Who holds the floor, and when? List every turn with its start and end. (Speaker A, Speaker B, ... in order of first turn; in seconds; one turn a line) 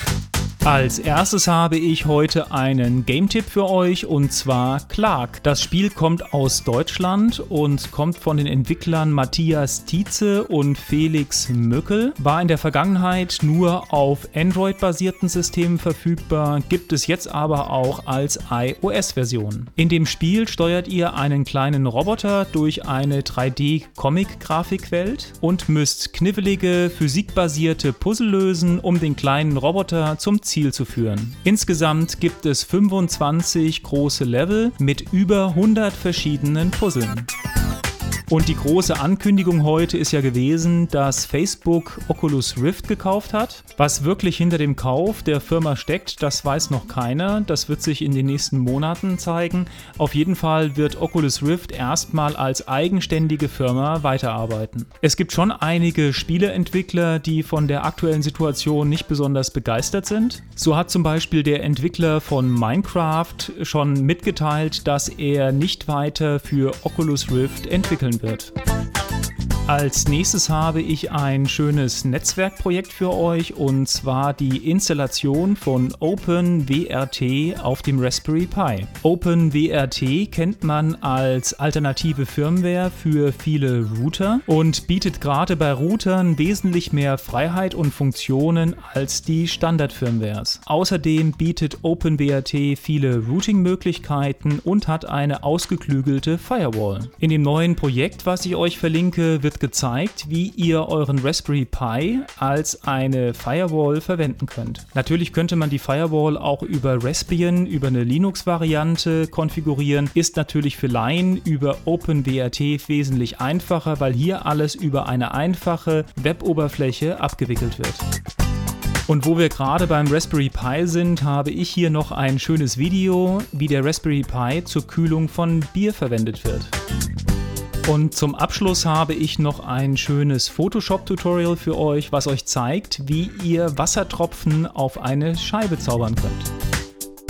Speaker A: 0.6-37.3
Speaker A: 38.3-68.5
Speaker A: 69.7-118.0
Speaker A: 119.1-126.7
Speaker A: 127.8-136.5